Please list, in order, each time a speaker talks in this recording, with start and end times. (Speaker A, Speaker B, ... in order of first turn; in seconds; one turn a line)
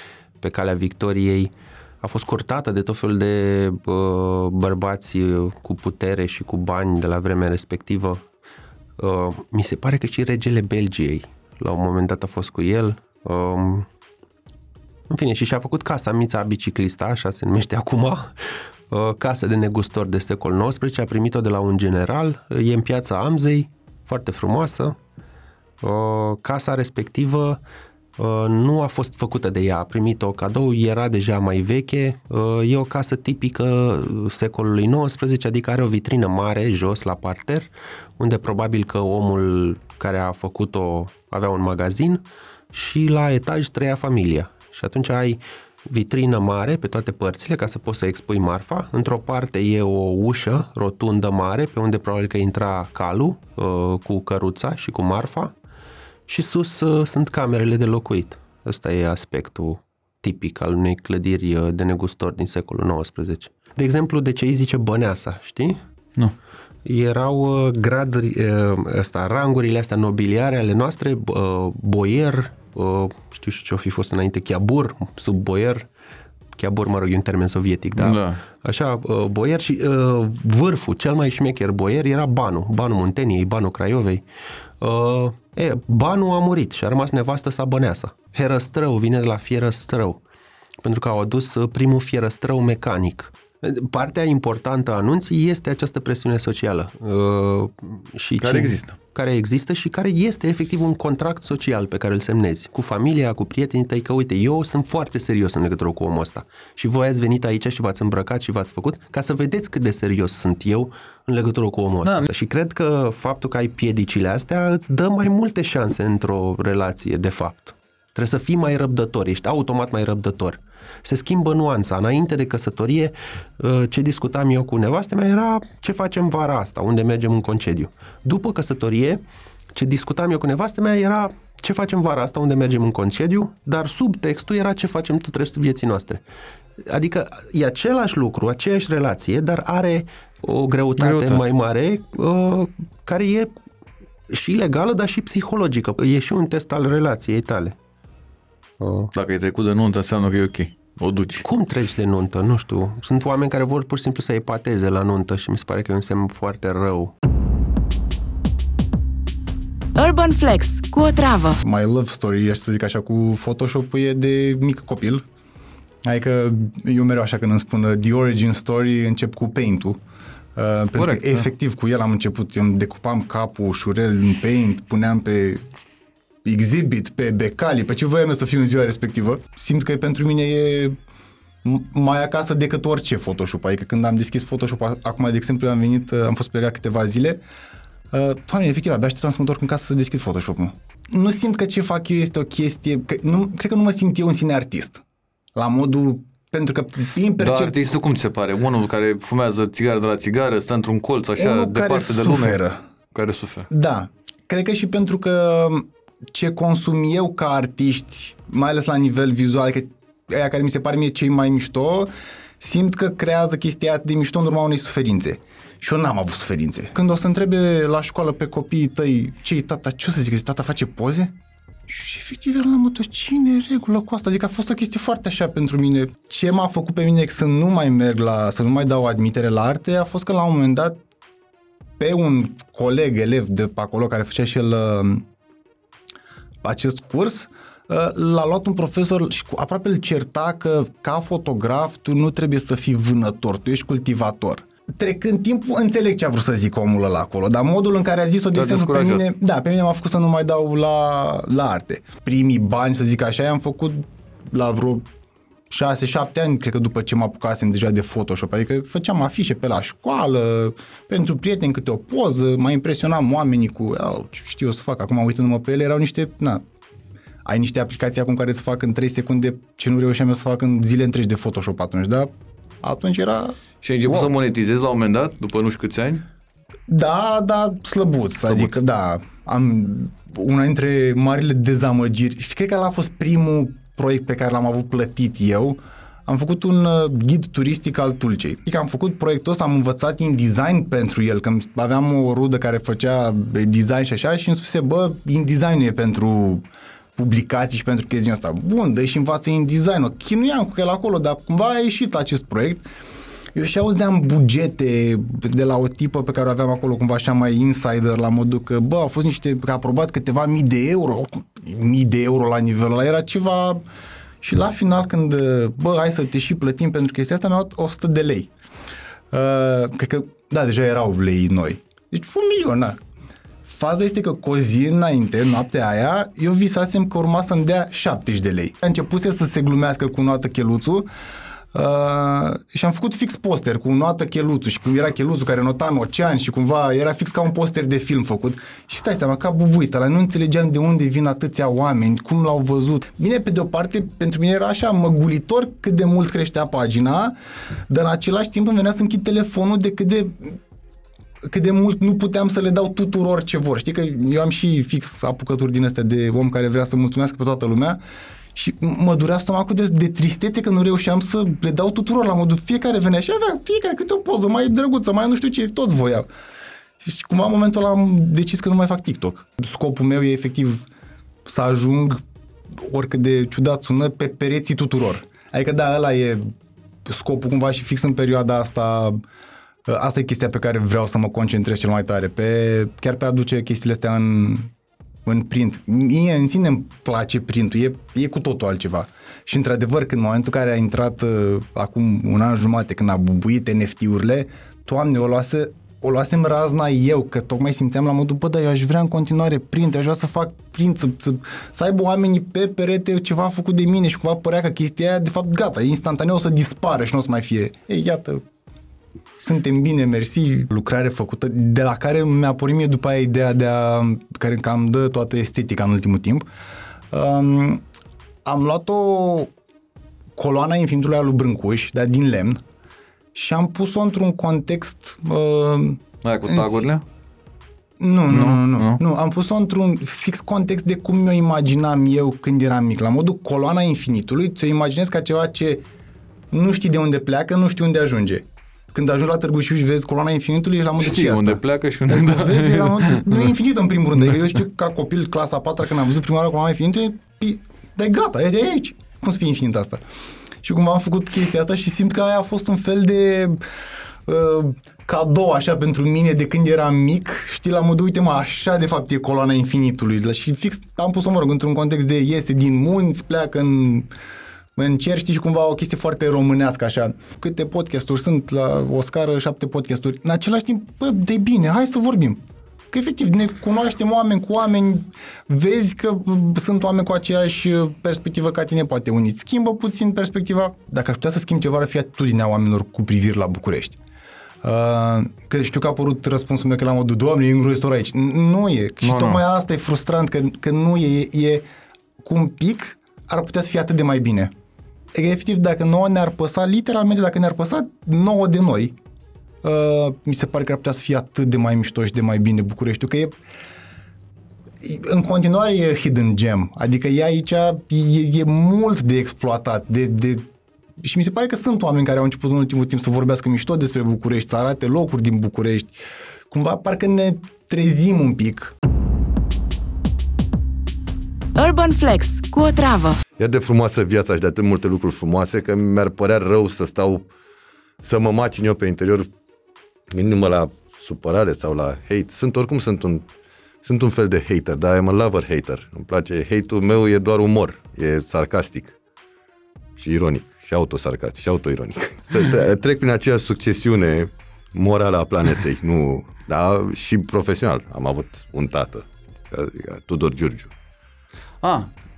Speaker A: 0.4-8.2
Speaker A: 9.0-13.9
Speaker A: 15.1-18.3
Speaker A: 18.9-25.0
Speaker A: 25.8-27.6
Speaker A: 28.2-55.5
Speaker A: 56.3-65.8
Speaker A: 66.8-75.9
Speaker A: 76.5-84.2
Speaker B: 77.9-78.4
Speaker A: 84.8-90.2
Speaker A: 90.8-129.2
Speaker B: 98.4-99.0
Speaker B: 112.0-112.3
Speaker A: 129.7-136.2
Speaker A: 136.8-143.5
Speaker B: 141.0-141.5
Speaker A: 144.3-147.7
Speaker A: 148.8-149.1
Speaker B: 149.1-151.4
Speaker A: 151.4-157.1
Speaker C: 159.9-161.6
Speaker D: 161.6-165.2
Speaker D: 166.0-170.0
Speaker D: 170.6-175.7
Speaker B: 170.9-171.5
Speaker D: 176.4-181.0
Speaker D: 181.6-187.4
Speaker D: 188.1-195.0
Speaker D: 195.5-197.9
Speaker B: 197.4-202.6
Speaker D: 201.4-202.8
Speaker B: 203.1-203.7
Speaker D: 203.7-221.3
Speaker D: 221.9-231.0
Speaker D: 232.0-235.3
Speaker D: 236.6-255.1
Speaker B: 248.5-249.2
Speaker D: 255.7-266.6
Speaker D: 267.4-272.3
Speaker D: 272.8-273.6
Speaker B: 273.8-276.2
Speaker D: 276.9-302.9
Speaker D: 303.5-313.8
Speaker D: 314.4-318.5
Speaker D: 319.3-323.0
Speaker D: 323.6-331.1
Speaker D: 331.7-347.4
Speaker D: 347.9-350.6
Speaker D: 351.4-358.0
Speaker D: 358.5-366.3
Speaker D: 367.0-370.8
Speaker D: 371.4-372.2
Speaker D: 372.8-376.5
Speaker D: 377.0-379.2
Speaker D: 379.9-384.7
Speaker D: 385.2-408.4
Speaker D: 409.4-416.4
Speaker D: 417.1-417.8
Speaker D: 418.4-419.5
Speaker D: 420.4-422.6
Speaker D: 423.3-426.8
Speaker B: 426.2-427.0
Speaker D: 428.0-435.8
Speaker B: 428.3-429.0
Speaker D: 436.5-450.0
Speaker B: 441.0-443.5
Speaker D: 450.6-453.6
Speaker D: 454.2-464.1
Speaker D: 464.8-484.0
Speaker D: 484.6-491.6
Speaker B: 489.0-489.4
Speaker D: 492.2-494.5
Speaker D: 495.1-499.0
Speaker D: 499.6-503.4
Speaker D: 504.8-510.5
Speaker D: 511.0-518.7
Speaker C: 521.5-523.2
Speaker E: 523.4-527.3
Speaker E: 528.0-529.3
Speaker E: 530.1-533.2
Speaker E: 533.8-539.0
Speaker E: 540.0-550.7
Speaker B: 551.6-551.9